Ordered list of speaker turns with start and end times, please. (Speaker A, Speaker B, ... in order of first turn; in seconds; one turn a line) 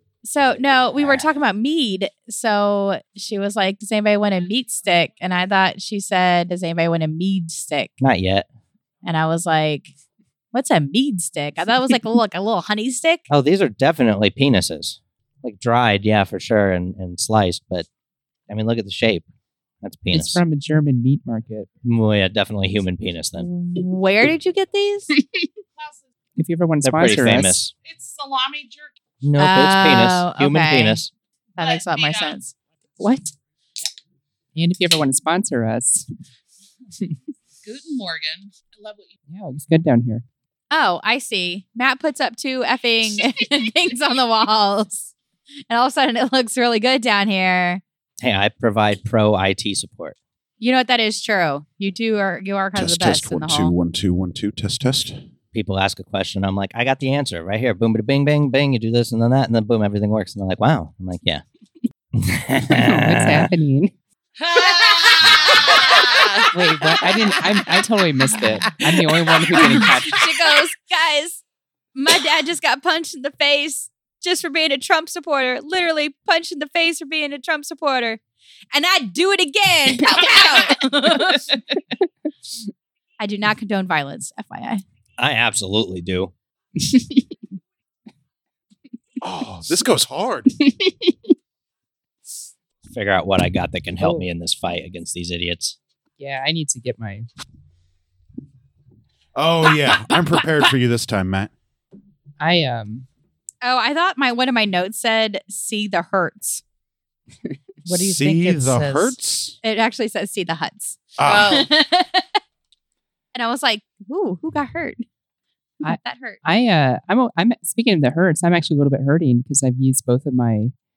Speaker A: 0.2-7.9
Speaker B: 8.0-8.4
Speaker A: 9.0-9.9
Speaker A: 10.5-13.2
Speaker B: 13.3-17.9
Speaker B: 18.5-19.2
Speaker B: 19.8-20.4
Speaker C: 20.1-21.7
Speaker B: 21.8-23.5
Speaker A: 23.4-25.1
Speaker C: 25.2-25.5
Speaker D: 25.8-26.0
Speaker C: 26.4-27.6
Speaker B: 26.8-27.7
Speaker D: 27.8-28.9
Speaker B: 29.2-31.1
Speaker A: 29.4-31.0
Speaker A: 31.6-33.3
Speaker D: 31.6-32.4
Speaker C: 34.5-36.1
Speaker D: 37.6-39.1
Speaker C: 39.3-40.2
Speaker A: 40.7-45.1
Speaker A: 45.7-47.8
Speaker B: 48.2-50.2
Speaker A: 50.6-53.7
Speaker E: 52.7-55.2
Speaker B: 55.5-61.4
Speaker B: 62.2-63.5
Speaker C: 62.7-63.9
Speaker D: 64.4-66.5
Speaker C: 66.5-70.2
Speaker A: 69.6-71.4
Speaker A: 72.0-78.2
Speaker A: 78.7-81.3
Speaker D: 80.2-81.5
Speaker A: 83.2-84.8
Speaker B: 85.2-86.3
Speaker C: 86.8-87.2
Speaker E: 89.2-90.5
Speaker C: 90.6-91.1
Speaker B: 92.9-95.8
Speaker C: 94.0-94.3
Speaker C: 96.2-97.3
Speaker E: 99.3-101.5
Speaker C: 102.4-103.0
Speaker A: 103.6-106.6
Speaker D: 107.8-109.2
Speaker E: 108.0-109.5
Speaker A: 109.6-112.2
Speaker E: 111.2-111.7
Speaker D: 111.3-111.6
Speaker A: 113.3-115.0
Speaker C: 115.8-120.7
Speaker A: 115.8-116.4